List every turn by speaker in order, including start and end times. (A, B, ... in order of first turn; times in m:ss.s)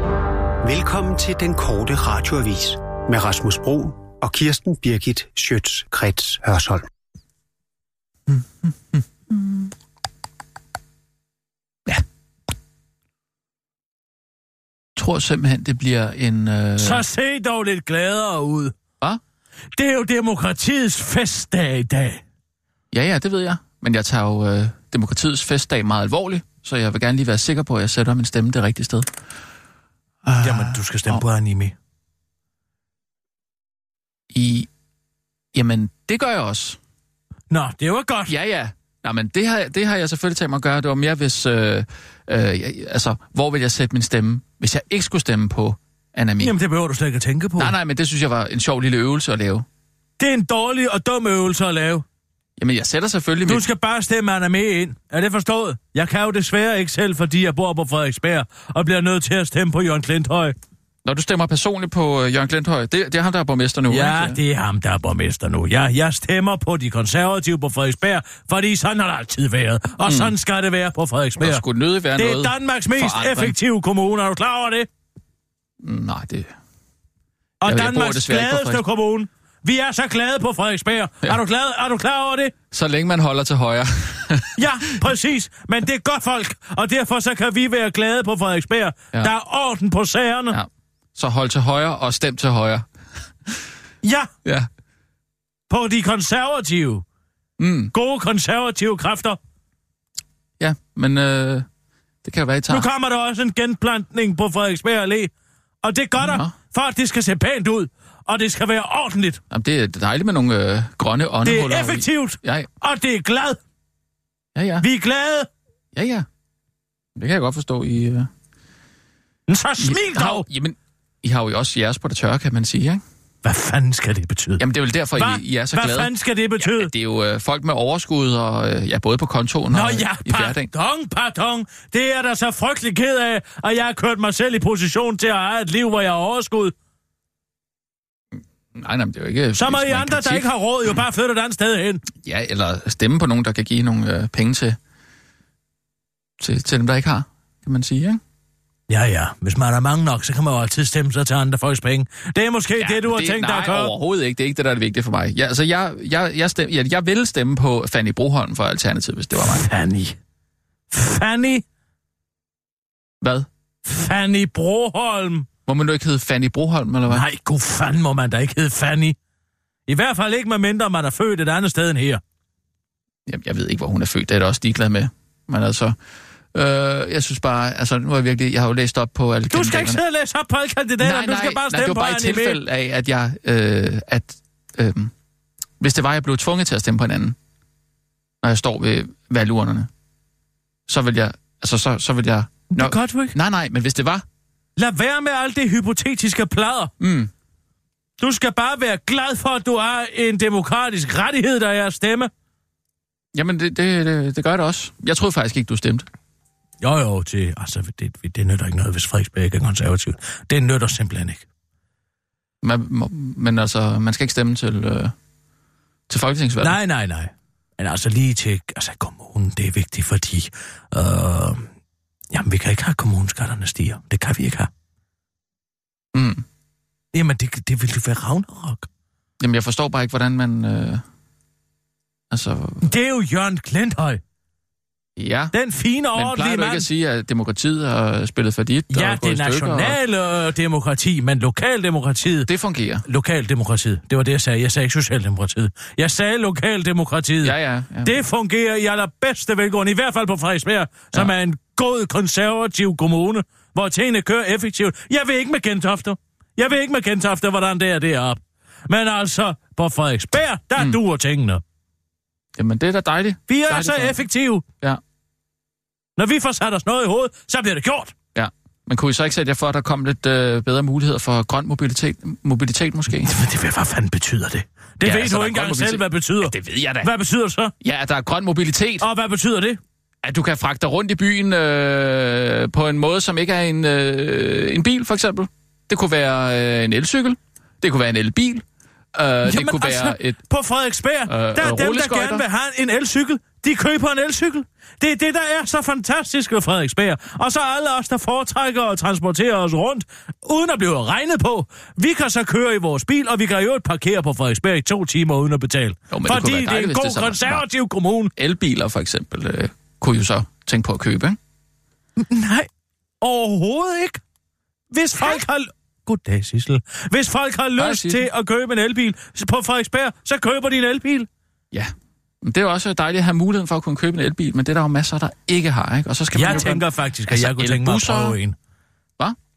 0:00.6-0:06.8 A
0:15.0-0:17.0 B
0:16.8-0:18.7 C
0:19.8-0:22.2 C
0:22.9-0:29.1 B
0:30.2-0:31.2 B
0:30.4-0:31.7 C
0:34.3-0:34.7 B
0:35.5-0:36.8 B
0:37.5-0:38.3 C
0:38.3-0:46.6 B
0:46.4-0:47.8 C
0:47.6-0:49.6 B
0:50.2-0:52.0 C
0:52.6-0:53.6 B
0:53.4-1:00.5 C
1:01.0-1:04.4 B
1:03.9-1:11.6 C
1:10.0-1:10.3 B
1:11.4-1:13.5 B
1:12.1-1:14.9 C
1:15.8-1:16.5 B
1:17.6-1:22.5 C
1:17.6-1:18.8 B
1:22.7-1:25.0 B
1:24.6-1:30.6 C
1:30.5-1:32.8 B
1:34.0-1:34.3 C
1:35.7-1:37.0 C
1:37.6-1:37.9 B
1:37.9-1:39.4 C
1:40.6-1:41.6 B
1:42.2-1:42.8 B
1:42.7-1:45.3 C
1:45.8-1:49.4 C
1:46.2-1:46.5 B
1:49.5-1:52.7 B
1:51.4-1:53.6 C
1:54.6-1:54.8 B
1:54.8-1:55.5 C
1:55.9-1:56.2 B
1:57.2-1:58.3 B
1:59.5-2:00.5 C
1:59.8-2:03.0 B
2:03.4-2:04.6 C
2:04.6-2:10.7 B
2:05.2-2:06.9 C
2:09.7-2:16.7 C
2:18.7-2:20.5 B
2:19.5-2:22.0 C
2:22.2-2:24.8 B
2:26.4-2:28.2 B
2:28.9-2:33.9 C
2:32.8-2:39.7 B
2:39.4-2:40.2 C
2:40.9-2:41.6 C
2:43.2-2:43.5 B
2:43.8-2:45.5 C
2:45.7-2:47.2 B
2:47.1-2:49.2 C
2:49.9-2:52.2 C
2:53.3-2:55.9 B
2:56.5-3:00.0 B
2:59.5-3:02.6 C
3:01.0-3:05.1 B
3:05.8-3:07.4 B
3:08.4-3:09.9 B
3:10.9-3:14.2 B
3:12.7-3:13.3 C
3:14.8-3:16.9 C
3:17.0-3:17.3 B
3:18.2-3:22.3 C
3:23.3-3:26.0 B
3:26.8-3:31.4 C
3:32.6-3:35.1 B
3:36.1-3:36.8 B
3:36.6-3:41.6 C
3:42.3-3:44.7 C
3:46.1-3:46.4 B
3:47.1-3:48.9 C
3:49.4-3:51.0 B
3:52.3-3:52.9 B
3:52.8-3:54.2 C
3:55.2-3:55.5 B
3:55.5-3:56.8 C
3:56.1-3:59.9 B
3:58.9-4:02.5 C
4:02.5-4:03.0 B
4:03.0-4:21.6 C
4:07.4-4:08.2 B
4:22.6-4:24.2 B
4:23.5-4:24.6 C
4:26.2-4:28.1 C
4:28.3-4:33.3 B
4:33.2-4:37.7 C
4:35.0-4:37.1 B
4:37.8-4:39.0 B
4:39.0-4:39.8 C
4:40.2-4:48.6 B
4:49.1-4:50.4 B
4:49.4-5:08.3 C
4:51.3-4:52.4 B
5:06.1-5:07.6 B
5:08.4-5:11.4 B
5:12.2-5:12.7 C
5:13.2-5:14.2 C
5:14.9-5:21.3 C
5:17.8-5:18.2 B
5:21.7-5:28.4 B
5:26.3-5:28.6 C